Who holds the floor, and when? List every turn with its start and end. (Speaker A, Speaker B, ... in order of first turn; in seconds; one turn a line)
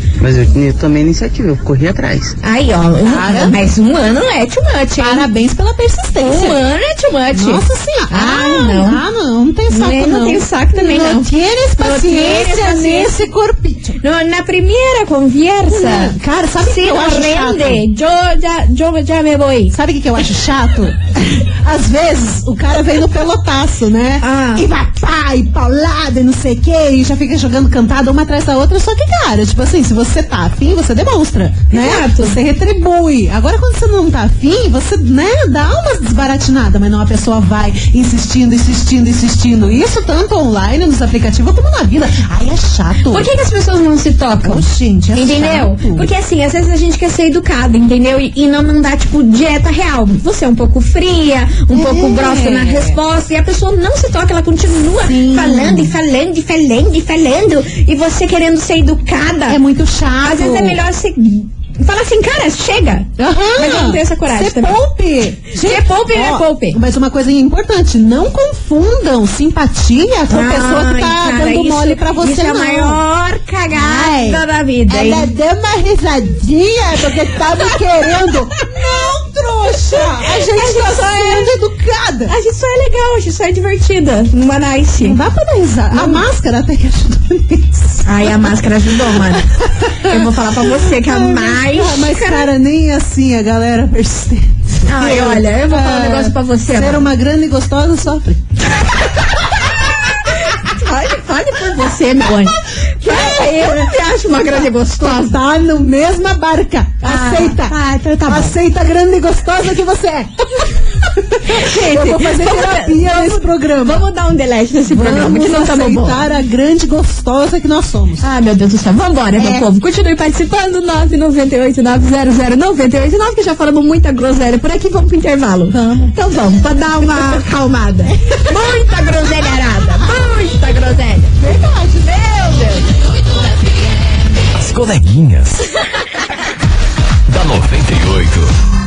Speaker A: 0.2-2.4
Speaker B: 2.4-5.3
Speaker C: 3.0-3.6
Speaker C: 5.0-6.6
Speaker B: 6.2-9.0
Speaker C: 7.3-14.0
Speaker B: 9.7-13.1
Speaker B: 14.0-19.7
Speaker C: 15.7-17.8
Speaker C: 19.7-43.3
Speaker B: 24.2-24.6
Speaker B: 31.7-32.4
Speaker B: 43.1-59.6
Speaker C: 44.4-46.1
Speaker C: 51.7-53.0
Speaker C: 55.0-55.9
Speaker C: 59.5-60.8
Speaker B: 60.2-64.8
Speaker C: 63.2-73.0
Speaker B: 65.6-66.8
Speaker B: 70.3-75.3
Speaker C: 73.7-82.3
Speaker B: 80.3-81.5
Speaker B: 82.3-85.2
Speaker C: 85.0-88.5
Speaker B: 85.9-86.2
Speaker B: 88.0-89.5
Speaker C: 89.1-98.4
Speaker B: 90.0-92.5
Speaker B: 94.9-97.1
Speaker B: 100.5-105.3
Speaker C: 103.0-103.9
Speaker C: 105.0-114.1
Speaker B: 107.0-108.5
Speaker B: 111.5-116.2
Speaker C: 114.9-118.2
Speaker B: 118.2-131.3
Speaker C: 119.4-119.7
Speaker C: 125.7-126.5
Speaker C: 128.1-128.7
Speaker C: 131.4-132.6
Speaker B: 132.0-132.8
Speaker D: 134.5-135.7
Speaker D: 137.3-138.5